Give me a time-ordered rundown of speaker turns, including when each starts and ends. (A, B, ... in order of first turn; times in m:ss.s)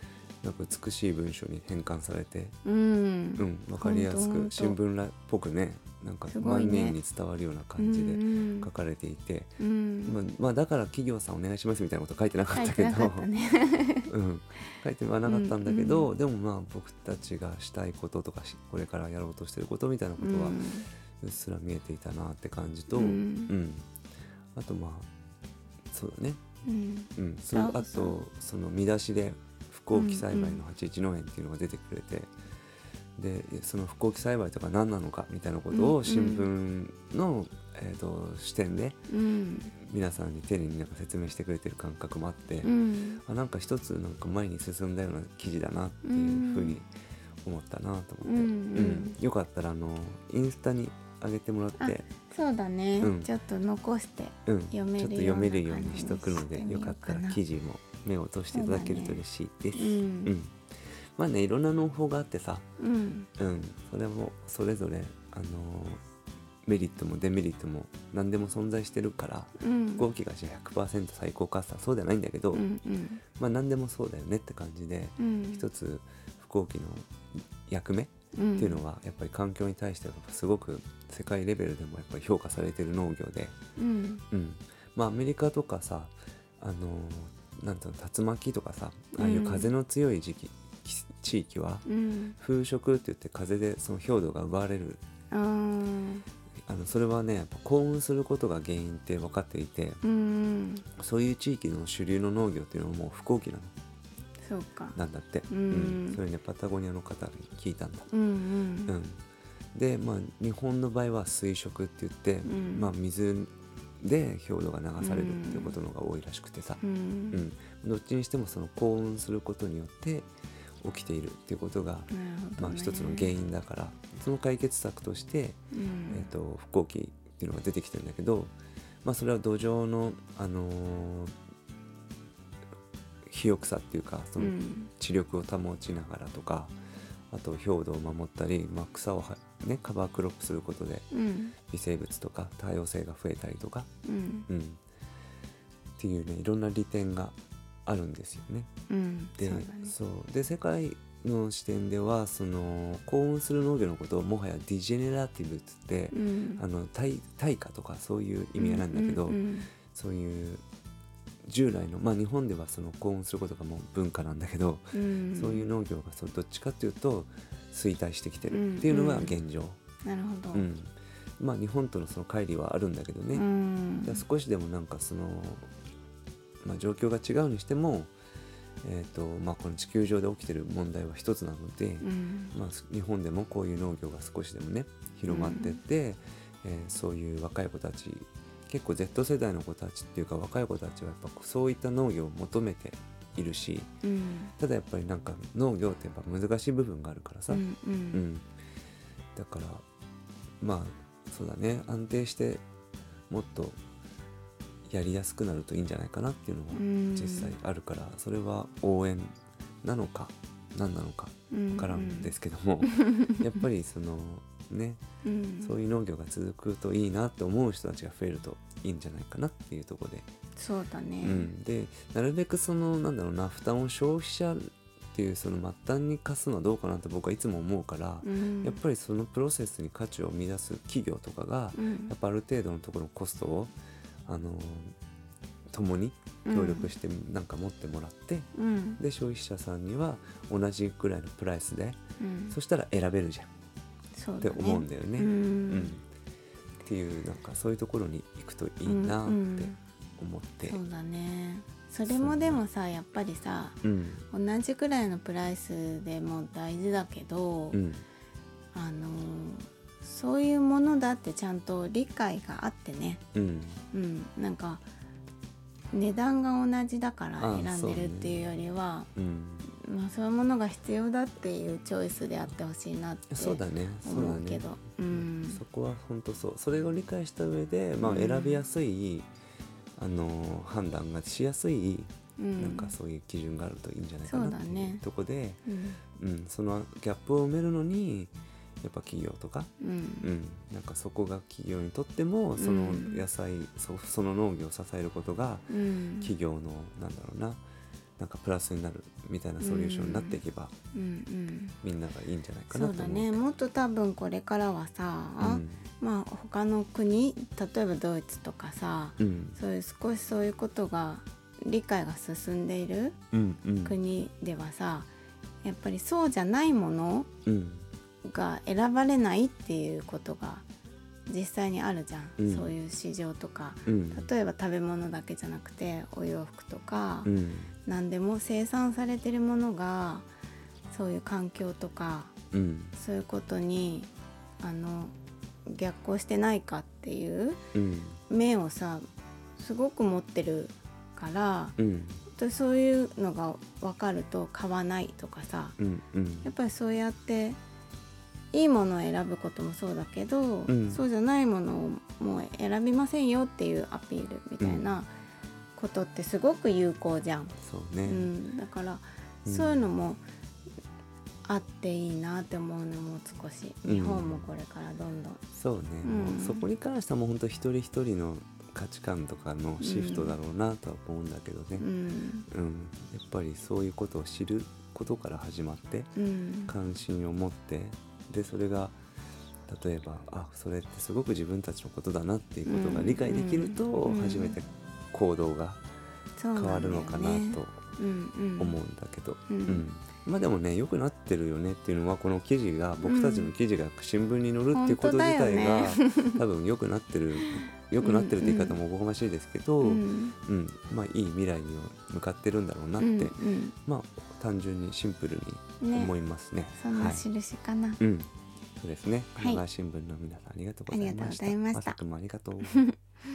0:00.4-0:02.5 A
0:02.6-0:04.8 B
0:03.4-0:13.3 A
0:06.3-0:07.0 B
0:07.8-0:08.7 B
0:09.6-0:10.1 B
0:12.5-0:14.1 B
0:14.1-0:20.6 A
0:15.3-0:16.1 B
0:20.2-0:20.9 B
0:21.2-0:23.9 A
0:22.9-0:23.5 B
0:24.5-0:25.1 A
0:25.9-0:26.4 A
0:26.6-0:28.1 B
0:27.2-0:32.3 A
0:29.9-0:30.6 B
0:33.2-0:39.0 A
0:35.7-0:36.5 B
0:39.1-0:39.7 B
0:39.7-0:42.7 A
0:42.6-0:43.2 B
0:43.2-0:46.9 A
0:46.0-0:46.8 B
0:47.4-0:52.0 A
0:48.2-0:49.2 B
0:51.8-0:57.4 B
0:53.0-0:53.3 A
0:54.5-1:00.6 A
0:58.5-0:59.2 B
0:59.7-1:00.3 B
1:01.2-1:02.6 A
1:02.8-1:03.3 B
1:03.4-1:06.0 A
1:06.6-1:12.6 A
1:09.6-1:10.0 B
1:12.5-1:13.2 B
1:13.4-1:23.5 A
1:15.2-1:15.6 B
1:18.3-1:18.8 B
1:23.8-1:24.2 B
1:24.3-1:31.8 A
1:29.2-1:29.7 B
1:31.8-1:32.3 B
1:32.4-1:35.0 A
1:35.3-1:36.2 B
1:36.6-1:40.0 A
1:40.0-1:40.8 B
1:41.0-1:43.7 A
1:44.4-1:45.0 B
1:44.9-1:48.1 A
1:45.5-1:46.2 B
1:48.1-1:48.9 B
1:48.9-1:49.2 A
1:49.7-2:00.3 A
1:52.4-1:52.9 B
1:55.0-1:55.8 B
1:56.8-1:57.4 B
2:00.8-2:08.5 A
2:02.1-2:03.3 B
2:05.7-2:06.3 B
2:09.0-2:11.3 A
2:13.2-2:16.7 A
2:14.4-2:14.9 B
2:17.3-2:21.1 A
2:21.1-2:21.5 B
2:21.7-2:23.9 A
2:24.0-2:24.5 B
2:24.5-2:24.8 A
2:26.0-2:28.7 A
2:28.9-2:29.9 B
2:29.4-2:40.6 A
2:36.1-2:36.6 B
2:38.6-2:39.7 B
2:41.4-2:49.8 A
2:44.9-2:45.6 B
2:48.5-2:49.3 B
2:50.0-2:50.7 B
2:50.5-2:53.4 A
2:53.3-2:54.2 B
2:54.0-2:55.6 A
2:56.6-2:58.1 A
2:58.8-3:13.9 A
3:02.0-3:02.5 B
3:05.3-3:05.8 B
3:14.0-3:14.5 B
3:14.6-3:18.5 A
3:17.5-3:18.2 B
3:19.3-3:19.8 A
3:20.6-3:22.6 A
3:23.3-3:23.8 A
3:24.9-3:35.0 A
3:26.7-3:27.5 B
3:31.5-3:32.3 B
3:32.9-3:33.4 B
3:35.2-3:35.8 B
3:35.6-3:40.3 A
3:40.6-3:41.5 B
3:41.2-3:53.7 A
3:48.2-3:48.8 B
3:51.7-3:52.1 B
3:54.2-3:54.9 A
3:55.7-4:02.0 A
3:56.4-3:56.9 B
3:58.5-3:59.0 B
4:02.2-4:02.6 B
4:02.5-4:03.5 A
4:04.1-4:05.9 B
4:04.4-4:06.0 A
4:06.8-4:10.8 A
4:08.8-4:09.8 B
4:10.6-4:13.8 B
4:12.0-4:12.6 A
4:13.8-4:14.2 A
4:14.3-4:17.8 B
4:17.7-4:18.0 A
4:18.7-4:23.2 B
4:23.3-4:23.8 A
4:23.9-4:24.8 B
4:25.9-4:29.1 B
4:27.4-4:28.6 A
4:29.2-4:29.7 A
4:29.6-4:35.6 B
4:33.3-4:39.3 A
4:38.0-4:38.6 B
4:40.0-4:45.6 A
4:42.4-4:42.9 B
4:44.2-4:45.0 B
4:45.6-4:46.0 B
4:46.2-4:57.6 A
4:49.8-4:50.3 B
4:52.6-4:53.2 B
4:55.7-4:56.3 B
4:58.2-5:00.7 A
4:59.6-5:00.4 B
5:00.9-5:01.8 B
5:01.8-5:03.4 A
5:02.7-5:13.2 B
5:05.4-5:05.9 A
5:09.2-5:09.6 A
5:13.3-5:14.0 A
5:13.8-5:15.1 B
5:15.6-5:17.3 B
5:17.4-5:17.9 A
5:18.2-5:20.6 B
5:21.3-5:27.3 B
5:22.4-5:22.7 A
5:23.8-5:24.3 A
5:27.2-5:27.7 A
5:27.8-5:30.3 B
5:30.9-5:32.3 B
5:32.5-5:33.0 A
5:33.0-5:35.1 B
5:35.6-5:37.6 B
5:37.7-5:38.2 A
5:38.3-5:41.8 B
5:41.8-5:42.2 A
5:42.3-5:45.8 B
5:45.8-5:46.5 A
5:46.4-5:47.6 B
5:48.5-5:55.1 B
5:50.7-5:51.0 A
5:54.6-5:54.9 A
5:55.8-6:00.2 B
5:57.6-5:58.3 A
5:59.4-5:59.8 A
6:01.4-6:05.4 B
6:03.8-6:04.5 A
6:05.5-6:11.9 A
6:06.0-6:06.7 B
6:09.8-6:10.3 B
6:11.8-6:12.4 B
6:12.5-6:16.1 A
6:16.2-6:16.7 B
6:16.7-6:18.9 A
6:19.7-6:25.8 A
6:22.6-6:24.6 B
6:26.4-6:28.8 B
6:26.5-6:27.8 A
6:28.6-6:47.2 A
6:29.5-6:29.8 B
6:33.0-6:33.5 B
6:34.7-6:36.4 B
6:38.0-6:38.8 B
6:39.8-6:40.3 B
6:43.0-6:43.8 B
6:45.8-6:46.1 B
6:46.8-6:48.0 B
6:48.0-6:52.8 A
6:49.4-6:49.6 B
6:50.9-6:52.0 B
6:52.6-6:53.0 B